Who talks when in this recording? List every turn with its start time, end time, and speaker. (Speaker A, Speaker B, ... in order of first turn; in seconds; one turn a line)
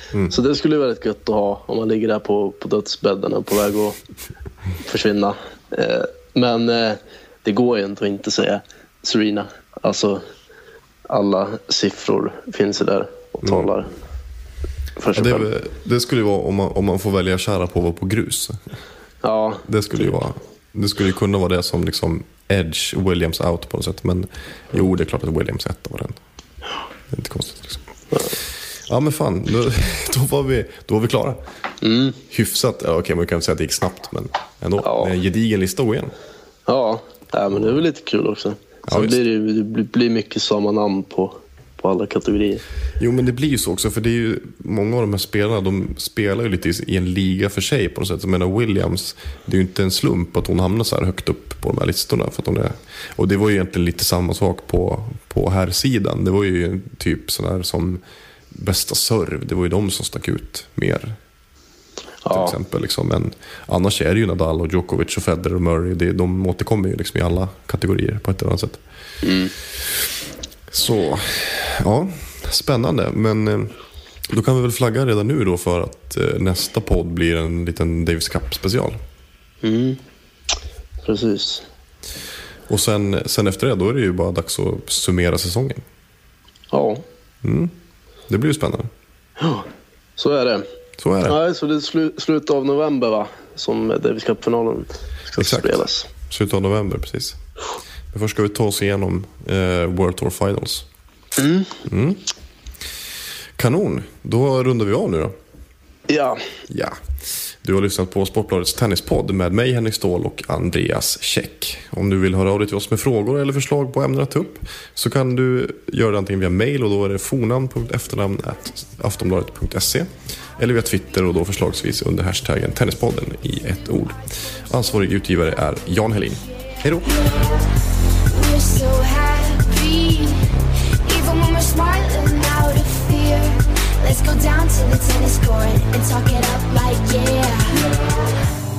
Speaker A: 0.3-4.0
Speaker A: 4.8-10.2
Speaker A: 11.1-13.9
Speaker B: 13.4-13.7
Speaker A: 15.0-15.5
Speaker B: 15.1-18.6
Speaker A: 19.2-19.7
Speaker B: 19.7-26.2
Speaker B: 27.1-27.8
Speaker B: 28.9-31.4
Speaker A: 31.8-32.2
Speaker B: 32.3-36.1
Speaker A: 34.8-35.1
Speaker A: 36.7-42.6
Speaker B: 38.9-39.2
Speaker B: 43.0-58.0
Speaker B: 58.5-61.2
Speaker A: 62.2-62.6
Speaker B: 62.3-68.8
Speaker A: 69.2-69.5
Speaker B: 70.7-73.8
Speaker B: 74.3-79.0
Speaker A: 79.6-80.0
Speaker A: 81.0-81.7
Speaker B: 82.7-85.8
Speaker A: 86.7-87.0
Speaker B: 87.4-87.7
Speaker B: 88.3-88.9
Speaker A: 89.4-90.7
Speaker B: 91.0-91.4
Speaker A: 91.2-96.1
Speaker B: 95.4-97.4
Speaker B: 98.1-100.9
Speaker A: 101.4-101.8
Speaker B: 101.9-102.2
Speaker B: 103.6-105.3
Speaker A: 106.1-106.4
Speaker B: 106.7-127.2
Speaker C: 127.0-127.7
Speaker C: 128.3-130.5
Speaker C: 131.1-138.3